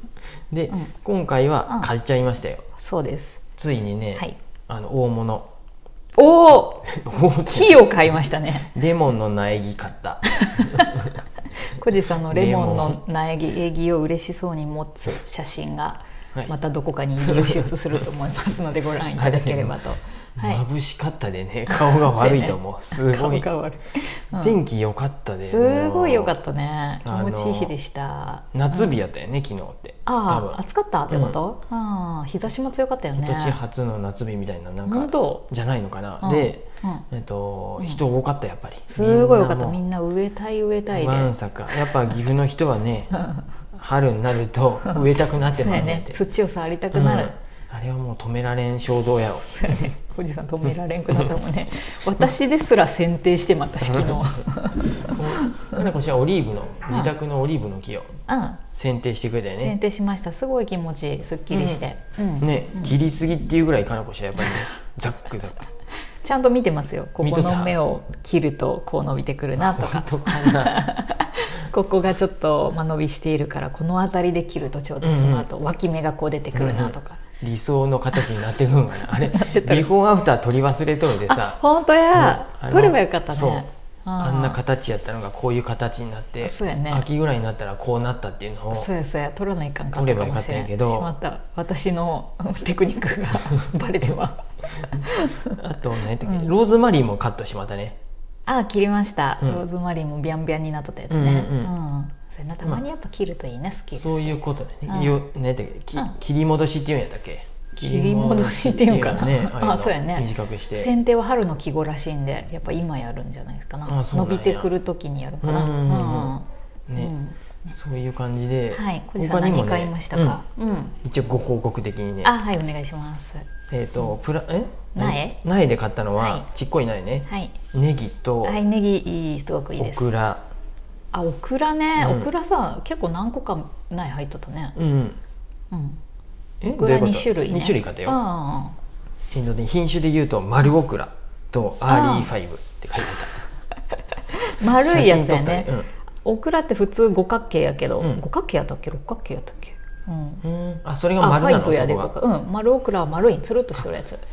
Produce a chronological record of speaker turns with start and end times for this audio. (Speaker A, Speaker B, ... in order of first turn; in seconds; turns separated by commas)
Speaker A: 0.5-2.6, Speaker B: 2.8-3.4, Speaker A: 3.6-5.5, Speaker B: 6.2-6.9, Speaker A: 6.8-8.0, Speaker B: 7.5-8.7, Speaker A: 8.7-10.9, Speaker B: 10.3-11.1, Speaker B: 11.7-20.6, Speaker A: 12.2-13.0, Speaker A: 17.2-18.0, Speaker A: 19.2-19.8, Speaker A: 20.4-23.5, Speaker B: 21.7-24.6, Speaker A: 24.4-26.4, Speaker B: 25.5-29.0, Speaker A: 27.0-27.8, Speaker A: 28.5-31.4, Speaker B: 30.1-33.6, Speaker A: 33.1-39.8, Speaker B: 34.9-35.4, Speaker B: 36.2-37.1, Speaker B: 38.9-41.3, Speaker A: 40.9-43.2, Speaker A: 43.7-46.2, Speaker B: 45.5-47.3, Speaker A: 46.9-49.9, Speaker B: 49.4-55.8, Speaker A: 55.1-58.1, Speaker B: 58.3-58.6, Speaker A: 58.7-59.8, Speaker B: 59.6-63.0, Speaker A: 61.5-61.8, Speaker A: 62.4-65.7, Speaker B: 66.2-77.2, Speaker A: 67.2-67.8, Speaker A: 69.6-70.9, Speaker A: 75.0-75.5, Speaker A: 76.5-81.6, Speaker B: 79.1-79.9, Speaker B: 81.2-84.6, Speaker A: 82.1-83.7, Speaker A: 84.2-88.9, Speaker B: 86.4-87.1, Speaker B: 88.7-95.5, Speaker A: 90.0-91.1, Speaker A: 95.5-98.0, Speaker B: 96.2-96.5, Speaker B: 98.5-105.2, Speaker A: 101.1-101.7, Speaker A: 103.9-110.9, Speaker B: 107.8-117.7, Speaker A: 113.9-114.7, Speaker A: 115.4-116.4, Speaker A: 116.9-117.1, Speaker A: 117.7-120.4, Speaker B: 118.7-121.0, Speaker A: 121.0-122.3, Speaker B: 122.2-123.5, Speaker A: 123.7-128.6, Speaker B: 125.0-125.4, Speaker B: 126.2-126.5, Speaker B: 127.3-127.6, Speaker B: 128.4-130.0, Speaker A: 129.8-130.5, Speaker B: 131.1-134.8, Speaker A: 132.0-132.3, Speaker A: 134.8-135.2, Speaker B: 135.7-136.0, Speaker A: 136.6-138.2, Speaker B: 136.8-138.8, Speaker A: 139.3-143.4, Speaker B: 141.9-142.3, Speaker B: 144.3-145.7, Speaker A: 144.7-145.9, Speaker B: 146.2-150.4, Speaker A: 150.4-152.1, Speaker B: 151.2-154.2